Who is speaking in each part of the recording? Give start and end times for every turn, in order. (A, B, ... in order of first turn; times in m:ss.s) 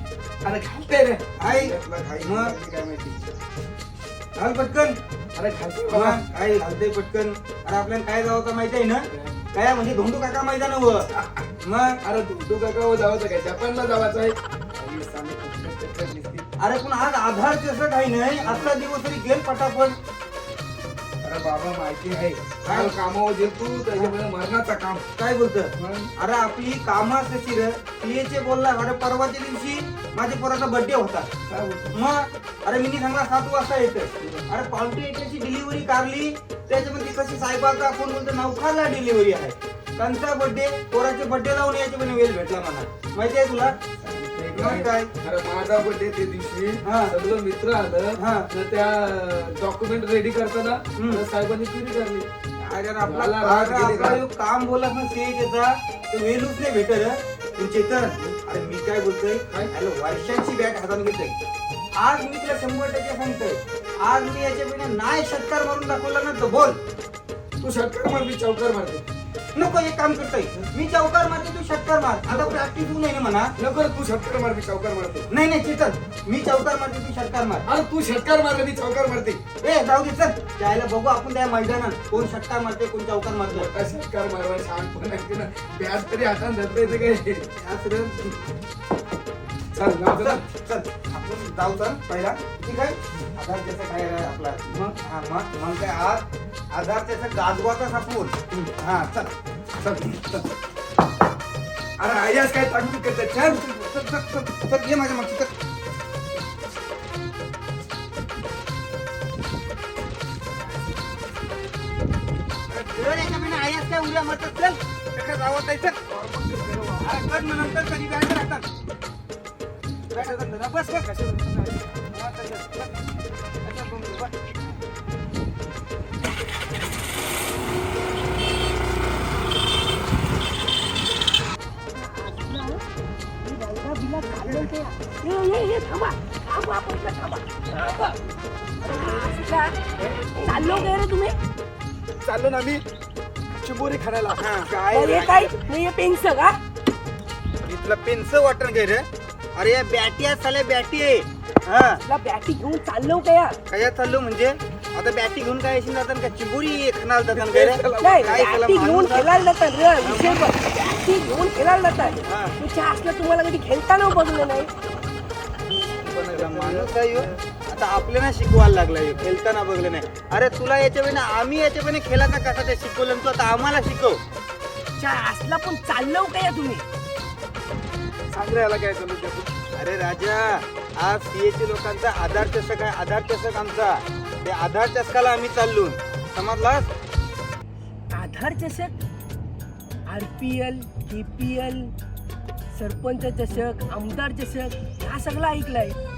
0:00.4-0:03.2 A
0:01.4-0:02.5 B
0:04.4-0:05.0 B
0:05.4-0:06.2 A
0:05.9-0:11.1 B
0:11.2-0:11.4 A
0:11.6-0:12.0 B
0:12.0-0:16.5 A
0:16.6-0:20.0 B
0:18.4-0:18.7 A
0:21.2-0:25.0 A
0:22.6-0:22.9 B
0:25.2-0:31.3 B
0:25.8-0:26.1 A
0:31.5-0:32.0 A
0:31.9-0:43.8 B
0:34.2-0:34.5 A
0:44.0-0:52.3 A
0:44.5-0:45.1 B
0:46.8-0:47.2 B
0:48.1-0:48.5 B
0:51.0-0:51.2 B
0:52.6-1:01.3 B
0:53.0-0:54.2 A
1:01.9-1:06.8 B
1:07.6-1:09.0 A
1:09.6-1:13.5 B
1:12.3-1:12.6 A
1:13.6-1:15.3 A
1:15.3-1:17.6 B
1:17.7-1:19.4 A
1:19.6-1:23.7 B
1:23.5-1:27.5 A
1:27.6-1:28.5 B
1:29.7-1:30.4 A
1:30.1-1:39.3 B
1:34.7-1:35.0 A
1:39.8-1:40.4 A
1:42.0-1:43.6 A
1:43.4-1:45.5 B
1:52.7-1:56.0 B
1:56.1-1:57.2 A
1:57.0-1:58.7 B
2:00.1-2:01.9 A
2:00.1-2:01.1 B
2:02.1-2:02.9 B
2:03.6-2:04.8 B
2:11.9-2:12.8 C
2:13.4-2:18.2 C
2:14.3-2:14.7 B
2:18.8-2:19.3 B
2:18.8-2:19.8 C
2:20.4-2:21.4 C
2:22.2-2:22.8 A
2:23.5-2:25.6 A
2:24.4-2:25.4 B
2:24.9-2:26.6 C
2:27.6-2:32.0 B
2:32.0-2:33.6 C
2:33.7-2:39.3 B
2:37.3-2:38.5 A
2:38.0-2:44.7 C
2:40.0-2:40.5 B
2:42.2-2:42.6 B
2:46.0-2:47.4 A
2:46.3-2:54.2 B
2:55.0-2:56.8 C
2:58.3-2:59.5 A
2:59.7-3:06.9 B
3:08.1-3:08.9 C
3:10.1-3:11.9 C
3:12.7-3:16.0 C